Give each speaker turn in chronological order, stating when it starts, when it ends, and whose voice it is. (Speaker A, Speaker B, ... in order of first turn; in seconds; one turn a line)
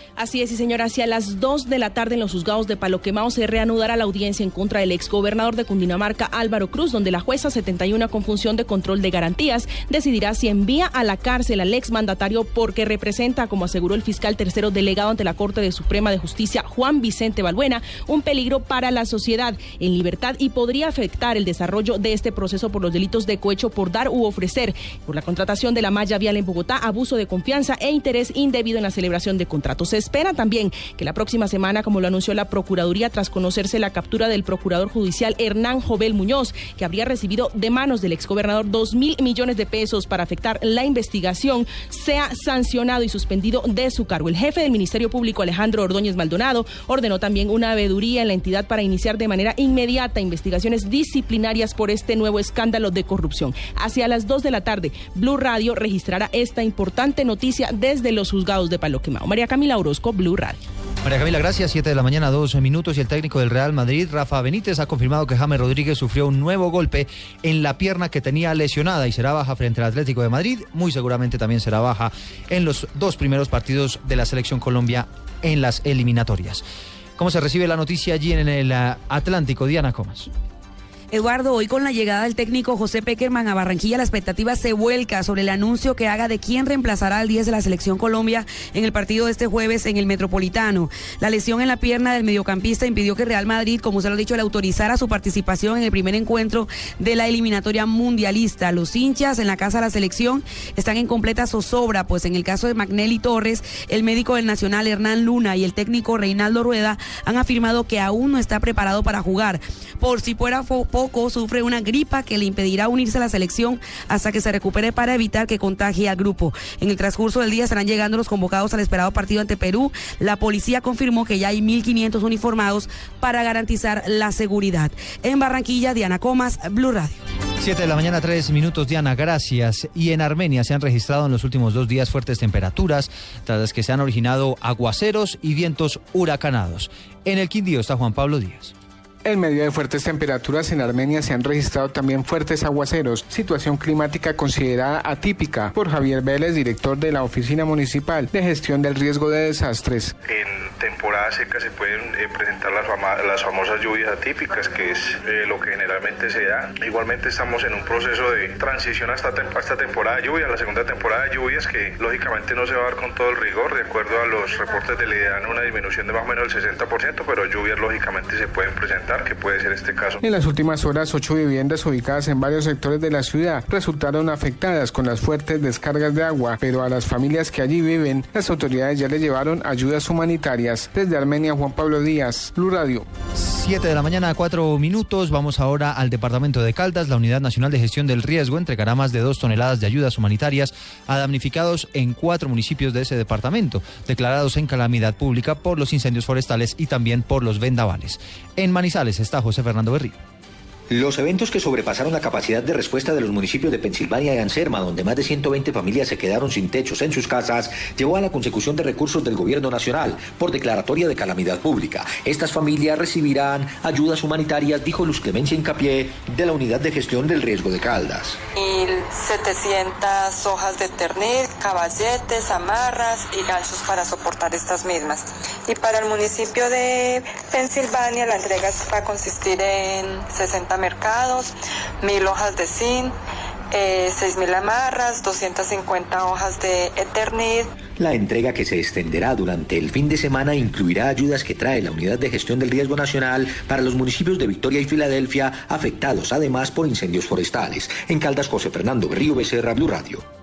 Speaker A: 0.2-60.6
Speaker B: 61.0-76.6
Speaker B: 77.2-80.3
Speaker C: 81.1-127.2
Speaker B: 127.6-138.7
Speaker D: 139.2-150.1
Speaker E: 150.3-170.2
Speaker D: 170.2-183.1
Speaker B: 183.3-200.2
Speaker F: 200.9-218.4
Speaker G: 218.5-233.1
Speaker G: 233.7-237.7
Speaker F: 238.0-250.2